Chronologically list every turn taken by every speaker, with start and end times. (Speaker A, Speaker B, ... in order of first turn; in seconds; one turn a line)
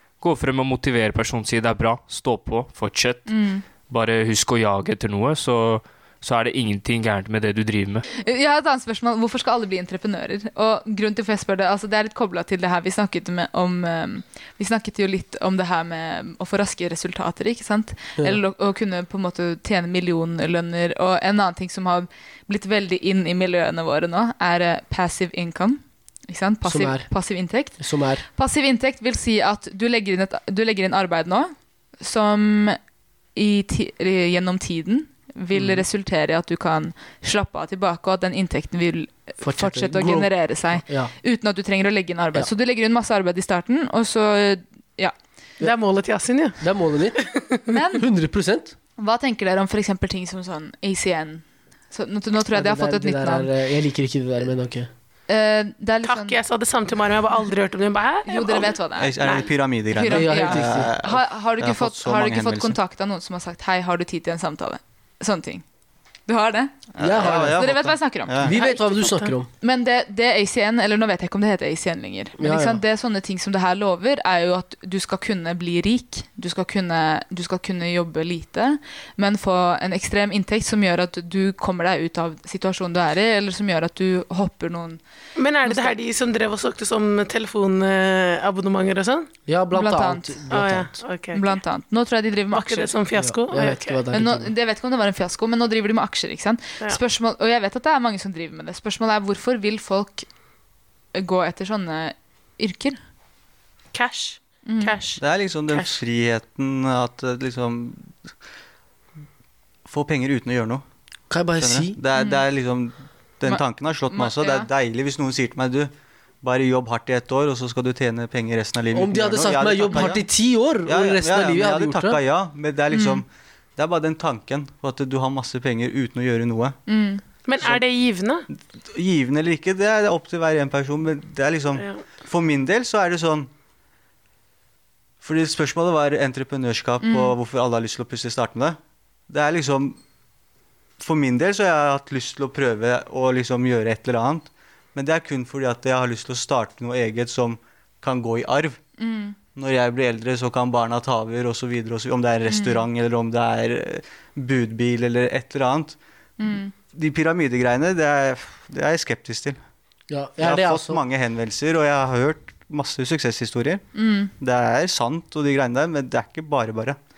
Speaker A: 0.2-3.3
Speaker B: 3.3-3.6
Speaker A: 3.9-8.1
Speaker B: 8.1-27.8
Speaker C: 26.6-27.1
Speaker C: 27.8-28.2
Speaker B: 28.3-32.8
Speaker B: 33.3-45.1
Speaker C: 35.5-35.8
Speaker C: 39.4-41.1
Speaker D: 45.6-47.6
Speaker C: 46.6-47.3
Speaker B: 47.7-48.0
Speaker C: 47.9-48.7
Speaker B: 49.0-53.5
Speaker C: 52.5-54.9
Speaker B: 55.3-56.4
Speaker D: 56.0-59.5
Speaker B: 58.2-65.6
Speaker E: 59.0-62.8
Speaker C: 60.1-60.9
Speaker B: 66.3-85.0
Speaker E: 66.9-68.5
Speaker C: 67.0-67.7
Speaker C: 68.4-69.5
Speaker C: 72.4-72.8
Speaker D: 85.3-89.3
Speaker B: 85.6-86.0
Speaker C: 89.5-91.0
Speaker B: 89.7-90.6
Speaker D: 90.5-91.6
Speaker B: 91.3-92.9
Speaker D: 92.5-94.0
Speaker C: 93.2-94.5
Speaker B: 94.1-100.2
Speaker B: 101.1-103.0
Speaker D: 103.9-106.0
Speaker B: 104.7-105.0
Speaker E: 105.2-108.3
Speaker E: 109.8-110.8
Speaker C: 111.3-112.0
Speaker E: 111.6-120.2
Speaker B: 112.1-112.4
Speaker B: 113.5-114.7
Speaker C: 118.9-122.2
Speaker E: 120.8-126.8
Speaker B: 122.9-123.2
Speaker B: 126.9-127.2
Speaker D: 127.4-128.4
Speaker E: 128.8-133.5
Speaker E: 135.2-138.8
Speaker B: 137.0-137.3
Speaker E: 139.3-140.0
Speaker E: 141.0-148.8
Speaker B: 149.0-149.3
Speaker E: 149.5-156.0
Speaker B: 152.5-152.8
Speaker B: 156.4-156.7
Speaker E: 156.9-159.6
Speaker C: 160.1-161.0
Speaker E: 160.4-163.8
Speaker B: 163.9-164.3
Speaker E: 164.4-167.0